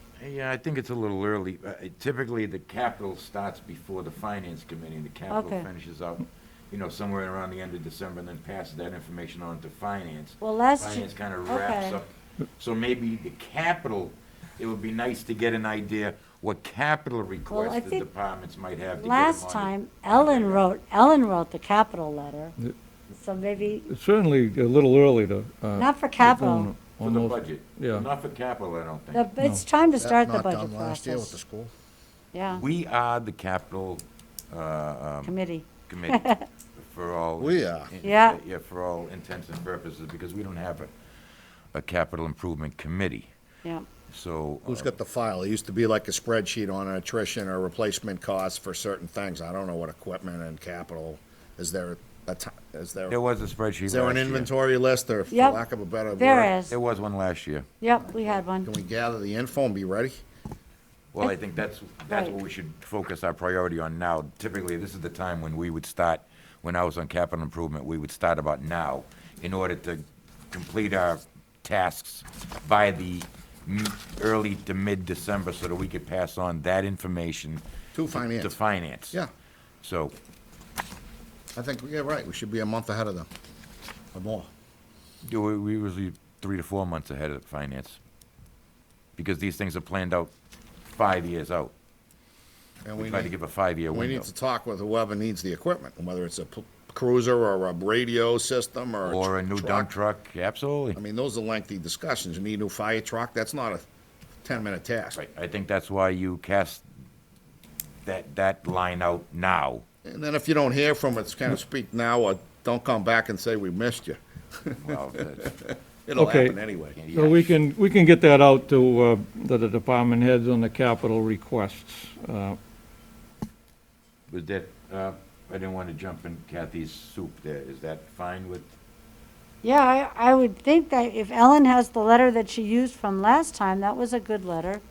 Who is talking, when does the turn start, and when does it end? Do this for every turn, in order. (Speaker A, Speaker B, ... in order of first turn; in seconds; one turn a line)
Speaker A: 0.2-20.7
Speaker B: 5.3-5.7
Speaker B: 10.4-12.0
Speaker B: 17.5-18.1
Speaker B: 18.9-22.5
Speaker B: 23.1-23.9
Speaker C: 23.9-28.1
Speaker B: 25.7-26.7
Speaker A: 27.0-29.3
Speaker B: 29.1-31.3
Speaker D: 30.0-31.7
Speaker B: 32.3-32.6
Speaker A: 32.5-40.9
Speaker B: 35.2-36.4
Speaker D: 37.4-37.9
Speaker B: 38.0-38.4
Speaker A: 41.7-43.3
Speaker A: 44.1-44.9
Speaker D: 44.6-53.1
Speaker A: 53.1-54.5
Speaker D: 53.9-56.5
Speaker B: 55.3-55.6
Speaker B: 56.1-56.8
Speaker A: 56.7-57.7
Speaker B: 57.8-58.7
Speaker D: 58.6-60.1
Speaker A: 61.1-79.2
Speaker B: 62.1-62.4
Speaker D: 77.9-78.5
Speaker A: 79.8-80.1
Speaker D: 81.5-83.3
Speaker D: 84.1-84.5
Speaker A: 85.2-88.0
Speaker A: 89.2-90.3
Speaker A: 90.9-91.7
Speaker D: 92.8-93.3
Speaker A: 93.0-94.3
Speaker D: 93.9-99.9
Speaker A: 99.0-101.0
Speaker D: 100.9-103.8
Speaker D: 104.4-105.2
Speaker A: 105.1-106.8
Speaker A: 108.0-109.8
Speaker D: 110.0-114.8
Speaker A: 114.8-115.6
Speaker D: 115.7-117.0
Speaker C: 116.2-116.5
Speaker A: 116.9-117.5
Speaker C: 117.1-122.6
Speaker A: 124.3-128.7
Speaker B: 129.6-134.8